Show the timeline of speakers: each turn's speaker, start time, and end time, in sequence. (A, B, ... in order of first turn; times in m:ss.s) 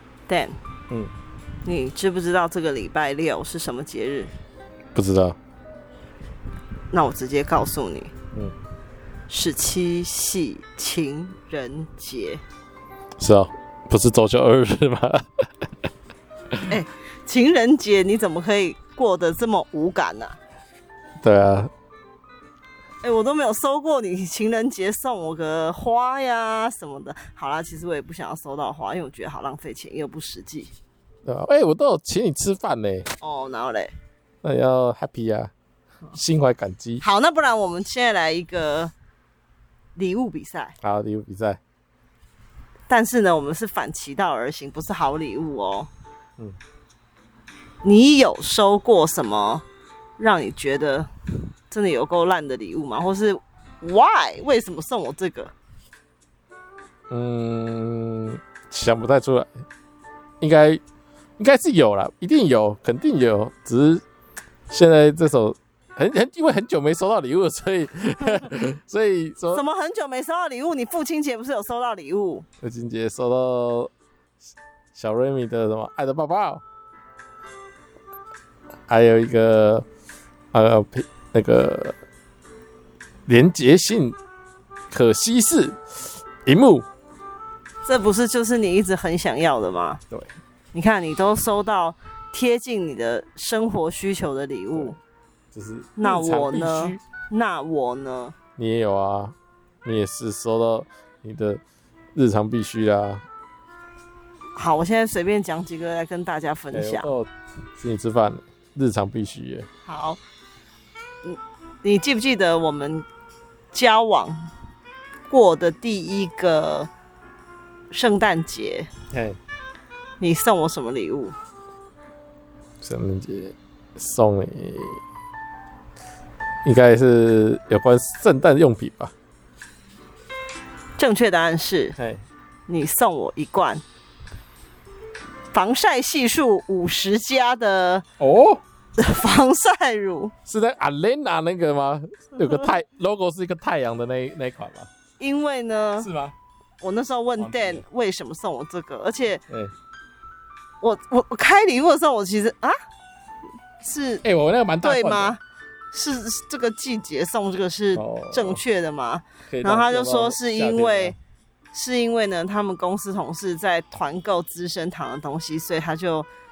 0:00.3-0:00.5 A
0:01.6-0:04.3 A
0:04.9-0:05.4 B
0:06.9-0:08.1 A
0:09.3-0:12.4 A
0:13.2-0:15.7 B
0:16.7-0:20.4 A
0:21.2-0:21.7 B
0:23.0-0:30.7 A
0:31.2-0:33.1 B
0:33.2-0:33.9 A
0:34.4-0:35.5 B
0:36.1-0:37.0 B
0:37.0-0:38.9 A
0:40.0-0:40.7 A
0:40.8-0:41.6 B
0:42.9-0:45.9 A
0:47.8-0:49.6 A
0:50.2-0:51.1 A
0:51.7-0:55.5 A
0:57.1-0:59.5 B
1:00.4-1:00.8 B
1:01.4-1:04.0 B
1:04.7-1:09.6 B
1:09.5-1:12.4 A
1:12.6-1:13.9 B
1:14.9-1:16.6 B
1:18.9-1:19.8 B
1:20.5-1:22.0 B
1:23.3-1:24.2 B
1:24.9-1:26.8 B
1:27.8-1:30.0 A
1:30.7-1:35.0 A
1:35.5-1:37.0 B
1:36.0-1:38.3 A
1:38.6-1:41.6 B
1:42.1-1:43.2 B
1:44.6-1:47.1 A
1:46.7-1:49.7 B
1:49.8-1:50.2 A
1:51.2-1:53.0 A
1:53.7-1:54.4 A
1:55.3-1:56.9 A
1:57.9-1:58.9 A
1:59.1-1:59.4 B
2:00.2-2:01.3 A
2:02.8-2:05.0 B
2:06.6-2:09.1 B
2:11.0-2:12.0 A
2:12.0-2:12.2 B
2:12.7-2:13.8 A
2:15.5-2:18.0 A
2:18.2-2:18.6 B
2:19.0-2:20.3 A
2:20.4-2:24.9 B
2:25.2-2:26.1 A
2:26.0-2:26.3 B
2:26.8-2:29.4 A
2:27.4-2:27.8 B
2:30.8-2:32.8 A
2:33.8-2:34.2 A
2:34.2-2:35.4 B
2:34.8-2:35.4 A
2:35.9-2:41.2 A
2:37.9-2:38.6 B
2:39.5-2:41.2 B
2:41.7-2:46.3 A